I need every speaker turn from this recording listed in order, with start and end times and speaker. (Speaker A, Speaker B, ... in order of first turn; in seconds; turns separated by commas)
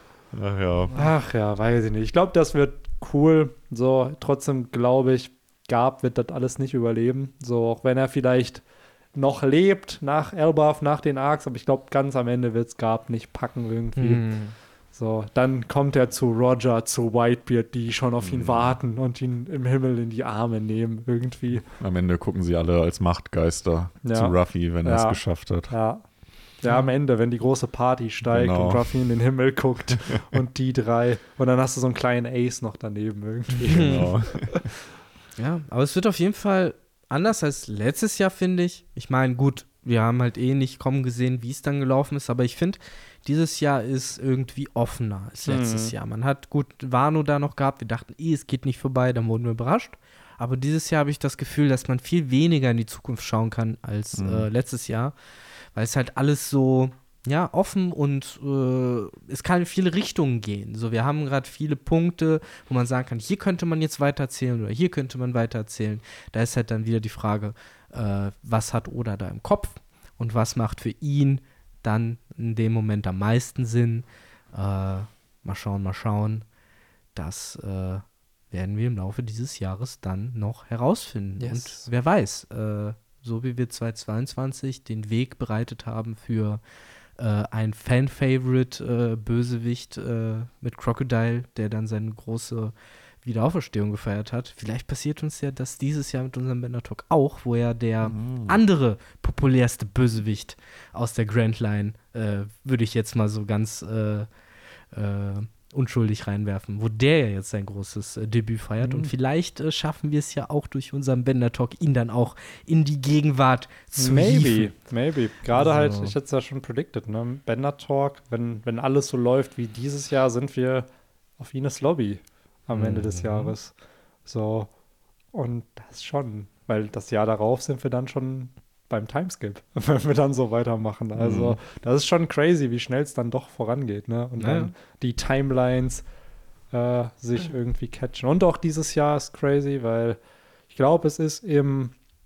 Speaker A: 0.3-1.0, Speaker B: 0.9-8.6, Speaker B: 9.1-14.2, Speaker C: 13.9-14.5, Speaker B: 14.9-21.6, Speaker A: 18.2-18.8, Speaker A: 21.7-25.7, Speaker B: 24.0-26.0, Speaker B: 26.6-34.6, Speaker A: 28.2-28.8, Speaker A: 33.7-34.6, Speaker C: 33.7-34.0, Speaker C: 35.4-55.1, Speaker B: 45.5-45.9, Speaker A: 54.1-54.5, Speaker C: 55.7-76.4, Speaker C: 77.1-86.6, Speaker B: 81.4-81.8, Speaker C: 87.2-92.7, Speaker C: 93.2-104.3, Speaker A: 98.0-98.6, Speaker C: 104.9-114.7, Speaker B: 108.8-109.1, Speaker B: 114.0-120.9, Speaker C: 115.5-116.1, Speaker B: 121.4-123.7, Speaker A: 123.0-123.2, Speaker B: 124.2-124.7, Speaker B: 125.3-136.0, Speaker A: 131.2-131.6, Speaker C: 134.4-134.7, Speaker B: 136.7-140.2, Speaker B: 140.7-141.9